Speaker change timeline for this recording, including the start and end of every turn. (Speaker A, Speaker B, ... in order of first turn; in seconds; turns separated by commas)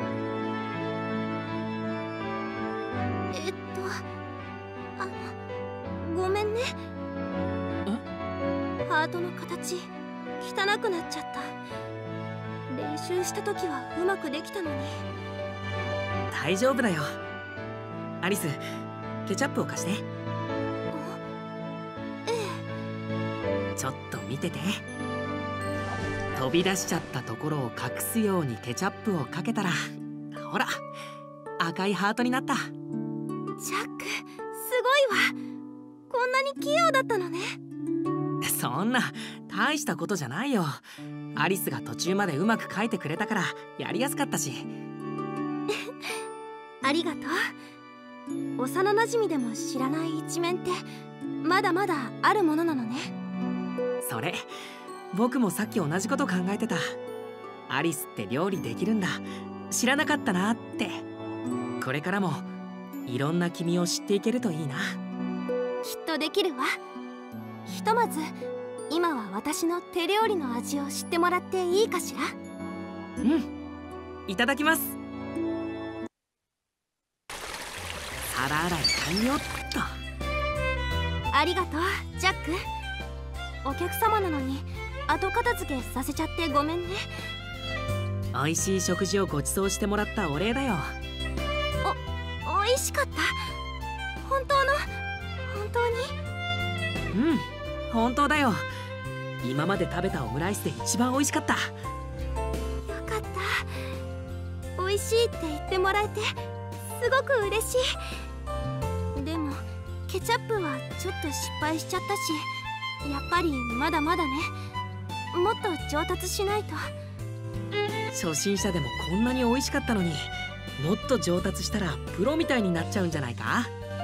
Speaker A: 3.3-4.0, Speaker A: 5.0-5.3, Speaker A: 6.0-6.7, Speaker A: 8.9-9.9, Speaker A: 10.4-11.5, Speaker A: 12.7-15.0, Speaker B: 16.3-17.2, Speaker B: 18.2-18.6, Speaker B: 19.3-20.1, Speaker A: 20.9-21.2, Speaker A: 22.3-22.6, Speaker B: 23.8-24.8, Speaker B: 26.4-29.8, Speaker B: 30.3-30.9, Speaker B: 31.6-32.7, Speaker A: 33.6-35.3, Speaker A: 36.1-37.6, Speaker B: 38.4-40.8, Speaker B: 41.4-44.7, Speaker A: 46.8-47.5, Speaker A: 48.6-50.8, Speaker A: 51.4-53.1, Speaker B: 54.0-54.5, Speaker B: 55.1-57.0, Speaker B: 57.7-61.0, Speaker B: 61.8-62.5, Speaker B: 63.0-65.0, Speaker A: 65.8-66.8, Speaker A: 67.7-68.3, Speaker A: 68.9-72.3, Speaker B: 73.2-73.5, Speaker B: 74.3-75.0, Speaker B: 78.2-80.0, Speaker A: 81.3-82.6, Speaker A: 83.7-87.2, Speaker B: 88.3-91.0, Speaker A: 91.8-93.5, Speaker A: 94.2-94.9, Speaker A: 95.5-96.2, Speaker B: 97.1-98.7, Speaker B: 99.4-101.8, Speaker A: 102.8-103.9, Speaker A: 104.8-106.3, Speaker A: 106.9-107.8, Speaker A: 109.2-112.5, Speaker A: 113.0-114.5, Speaker A: 115.3-116.9, Speaker B: 118.1-123.7